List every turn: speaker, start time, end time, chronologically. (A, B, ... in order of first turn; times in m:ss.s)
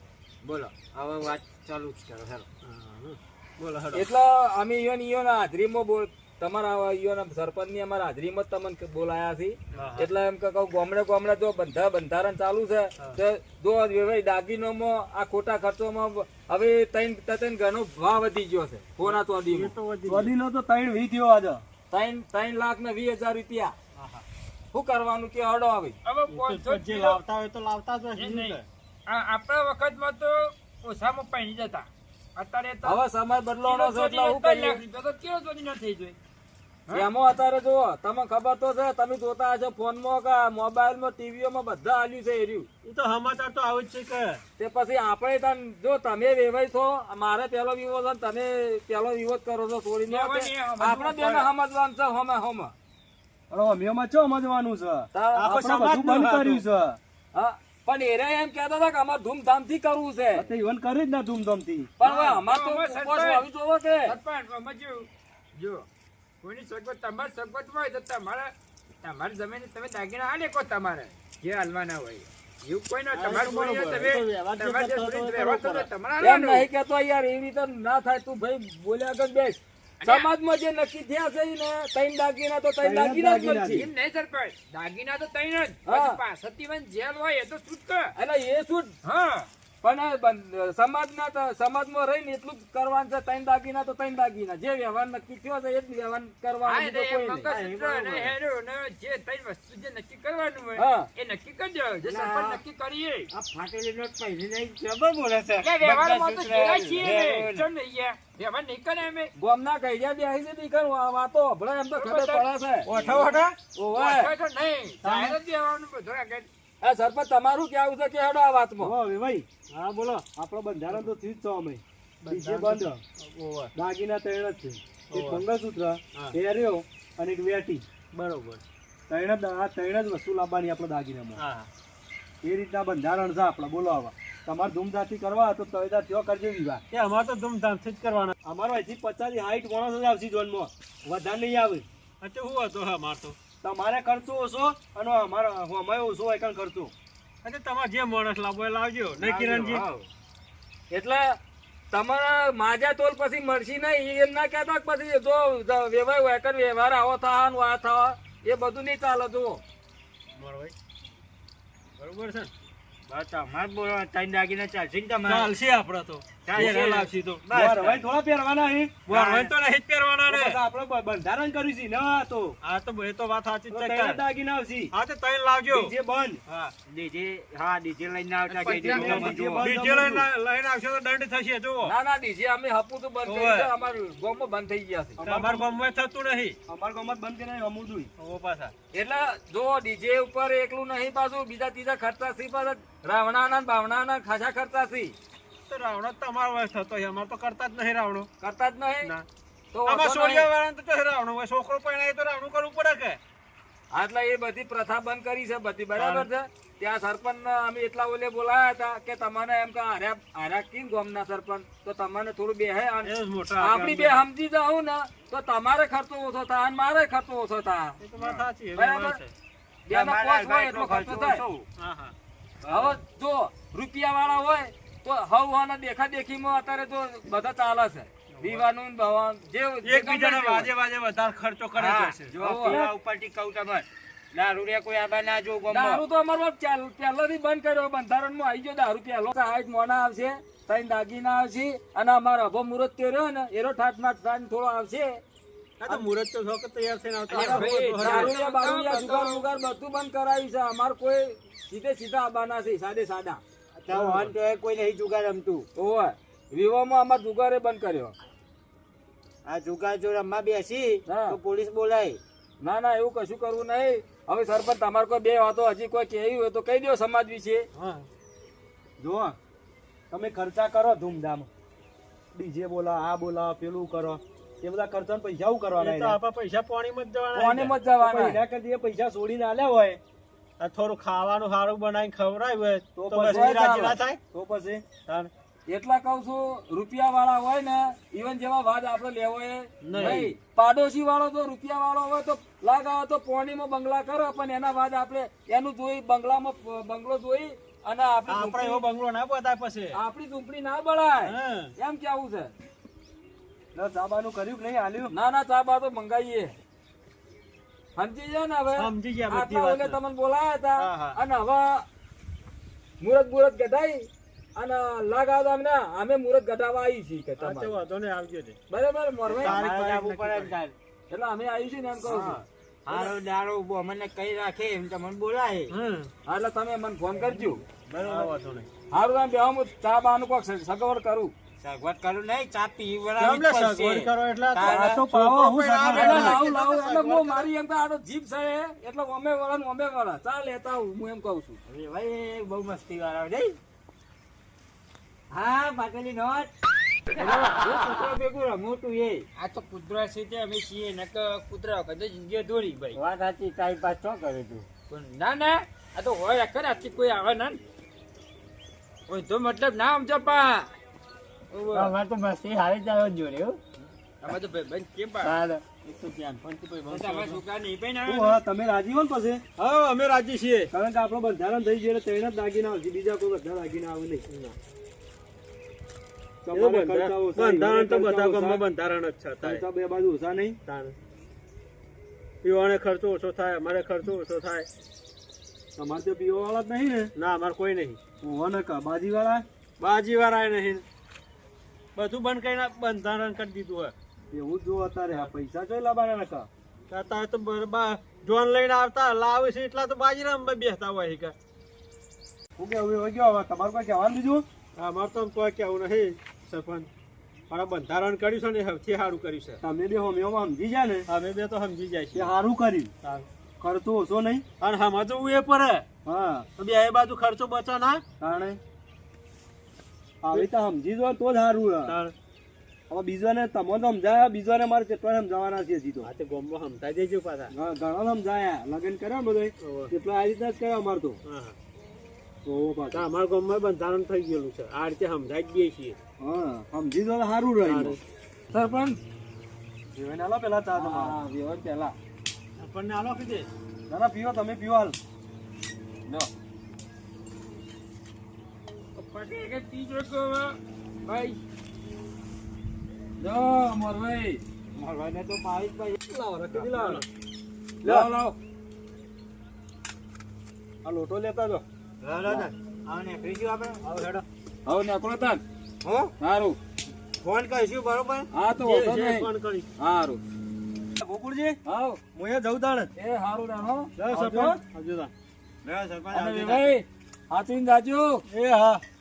0:00.4-0:00.7 A
0:00.9-0:02.4 B
0:02.6-0:04.1 C
0:03.9-0:19.7 A
0:09.7-0:10.1 C
0:19.0-0:20.3 C
0:20.1-0:21.6 D
0:21.9-0:23.8 A
0:24.0-0:24.2 C
0:24.7-0:26.0 A
0:26.0-0:27.2 E
0:26.3-0:28.6 C
0:28.2-0:33.0 E
0:32.8-0:34.8 A
0:33.6-0:36.2 E
0:36.9-0:42.7 A
0:42.8-0:44.4 C
0:44.6-0:52.7 A
0:50.1-0:51.5 E
0:53.5-0:57.0 D
0:55.1-0:55.5 A
0:55.4-0:56.6 C
0:57.3-1:00.4 A
1:00.4-1:01.9 D
1:02.0-1:04.2 A
1:02.0-1:03.4 E
1:04.1-1:05.9 E
1:06.4-1:08.5 E
1:09.0-1:16.7 E
1:13.1-1:15.9 C
1:16.2-1:23.9 A
1:20.0-1:20.3 E
1:22.8-1:23.9 D
1:23.7-1:28.1 E
1:25.9-1:26.2 A
1:28.2-1:28.9 A
1:29.0-1:29.5 E
1:29.8-1:37.5 A
1:36.6-1:43.3 E
1:37.4-1:38.4 B
1:40.8-1:41.1 A
1:42.0-1:42.6 B
1:43.3-1:47.7 B
1:45.6-1:49.3 E
1:49.4-1:52.9 A
1:52.0-1:53.3 E
1:52.9-1:53.6 B
1:53.8-1:54.3 A
1:53.9-1:56.5 E
1:56.8-1:58.9 A
1:58.8-1:59.5 D
1:59.7-2:00.3 C
2:00.4-2:03.0 D
2:02.2-2:03.7 C
2:03.8-2:07.9 D
2:05.1-2:05.4 C
2:08.1-2:08.6 C
2:09.1-2:11.4 D
2:11.4-2:11.7 C
2:12.4-2:16.8 D
2:16.9-2:18.3 C
2:18.4-2:21.8 D
2:22.2-2:23.4 C
2:23.6-2:26.9 D
2:27.4-2:29.9 C
2:29.2-2:30.1 B
2:30.9-2:31.4 A
2:31.9-2:39.6 A
2:40.4-2:40.7 C
2:42.0-2:42.5 C
2:43.1-2:45.5 B
2:45.2-2:48.0 C
2:46.4-2:47.1 B
2:47.4-2:49.5 D
2:49.1-2:50.6 C
2:50.3-2:52.6 D
2:52.6-2:54.2 C
2:53.7-2:54.9 D
2:54.9-2:55.9 C
2:55.7-2:56.4 D
2:56.5-2:56.7 C
2:56.9-2:59.8 B
2:58.5-3:01.9 C
2:58.8-3:00.3 D
3:01.8-3:05.2 A
3:03.3-3:03.7 C
3:05.2-3:05.8 D
3:05.2-3:06.6 C
3:06.7-3:08.1 D
3:08.2-3:08.7 C
3:08.9-3:15.1 A
3:15.7-3:18.3 C
3:18.4-3:19.1 A
3:19.7-3:20.5 A
3:19.9-3:23.2 C
3:23.9-3:39.2 A
3:25.9-3:26.3 C
3:33.0-3:34.2 C
3:38.0-3:39.3 C
3:39.9-3:41.7 B
3:39.9-3:41.4 A
3:41.8-3:42.1 C
3:42.6-3:43.0 B
3:42.7-3:50.7 A
3:48.3-3:48.6 C
3:49.8-3:52.4 C
3:51.8-3:56.0 B
3:52.4-3:52.9 A
3:55.7-4:05.2 A
4:05.8-4:08.4 C
4:07.3-4:09.4 E
4:07.3-4:13.4 A
4:13.8-4:15.7 B
4:13.9-4:14.3 C
4:15.8-4:18.1 A
4:19.4-4:22.2 B
4:21.1-4:21.4 A
4:22.6-4:27.6 A
4:27.8-4:28.1 C
4:29.0-4:29.4 D
4:30.1-4:31.5 D
4:32.3-4:36.2 D
4:35.8-4:37.8 C
4:37.3-4:38.4 A
4:38.0-4:40.0 D
4:40.6-4:44.2 C
4:43.0-4:44.8 D
4:43.3-4:44.0 A
4:45.1-4:45.3 C
4:45.7-4:58.9 A
4:49.8-4:50.4 C
4:50.0-4:50.3 D
4:58.3-5:00.0 C
4:59.9-5:02.5 A
5:01.2-5:01.7 C
5:03.7-5:05.1 D
5:05.1-5:06.5 A
5:08.0-5:11.9 A
5:08.8-5:10.0 C
5:10.8-5:11.2 C
5:13.0-5:17.8 A
5:17.4-5:18.6 C
5:18.7-5:19.6 A
5:19.3-5:20.6 C
5:19.4-5:20.7 B
5:21.1-5:22.4 A
5:22.0-5:23.1 C
5:22.9-5:25.7 B
5:25.7-5:26.1 C
5:26.3-5:27.6 A
5:27.9-5:28.3 B
5:28.0-5:28.7 C
5:28.9-5:31.3 A
5:31.6-5:35.0 B
5:33.2-5:37.5 C
5:34.6-5:36.4 D
5:35.9-5:41.6 A
5:41.7-5:43.6 B
5:45.3-5:46.5 B
5:47.1-5:49.2 B
5:49.4-5:53.0 E
5:52.9-5:54.7 B
5:54.9-5:57.6 E
5:59.1-6:00.7 E
6:01.5-6:01.9 E
6:01.7-6:03.6 B
6:04.2-6:05.4 E
6:05.2-6:06.4 B
6:06.4-6:07.4 C
6:06.9-6:08.4 E
6:08.1-6:09.4 D
6:09.6-6:10.7 C
6:10.7-6:14.2 D
6:14.3-6:14.6 C
6:16.4-6:18.6 D
6:16.5-6:19.6 C
6:19.4-6:20.6 D
6:20.6-6:20.9 C
6:22.4-6:24.7 C
6:25.8-6:27.1 D
6:27.1-6:28.0 C
6:28.2-6:29.4 D
6:29.8-6:30.8 C
6:31.9-6:33.9 C
6:34.3-6:36.5 D
6:36.9-6:41.4 C
6:42.6-6:44.4 D
6:44.8-6:46.9 C
6:47.5-6:49.6 C
6:49.6-6:51.1 D
6:51.1-6:52.3 C
6:52.1-6:52.9 D
6:53.6-6:54.4 D
6:54.6-6:55.9 C
6:56.0-6:56.5 D
6:56.6-6:58.0 C
6:58.2-6:58.6 D
7:00.2-7:02.0 D
7:01.9-7:02.1 C
7:02.9-7:06.1 D
7:06.0-7:07.5 C
7:07.5-7:11.2 D
7:09.6-7:09.9 C
7:11.2-7:11.6 C
7:12.4-7:13.1 D
7:12.9-7:16.0 C
7:16.2-7:18.0 D
7:17.6-7:18.0 C
7:18.5-7:19.0 A
7:19.9-7:21.2 D
7:20.8-7:21.9 A
7:22.6-7:23.5 C
7:23.9-7:25.0 D
7:29.0-7:31.4 E
7:33.2-7:34.4 A
7:34.8-7:36.0 B
7:36.5-7:37.0 D
7:36.7-7:37.0 C
7:37.8-7:38.4 A
7:40.9-7:41.6 D
7:42.0-7:44.0 B
7:44.6-7:45.4 A
7:45.8-7:46.1 B
7:46.2-7:46.6 A
7:47.2-7:48.3 B
7:48.3-7:50.2 A
7:48.6-7:49.7 C
7:51.0-7:51.6 D
7:51.6-7:52.0 A
7:52.1-7:52.9 D
7:53.0-7:53.9 A
7:54.0-7:54.6 D
7:54.0-7:55.1 C
7:55.6-7:56.7 B
7:56.1-7:58.2 A
7:58.3-7:58.8 C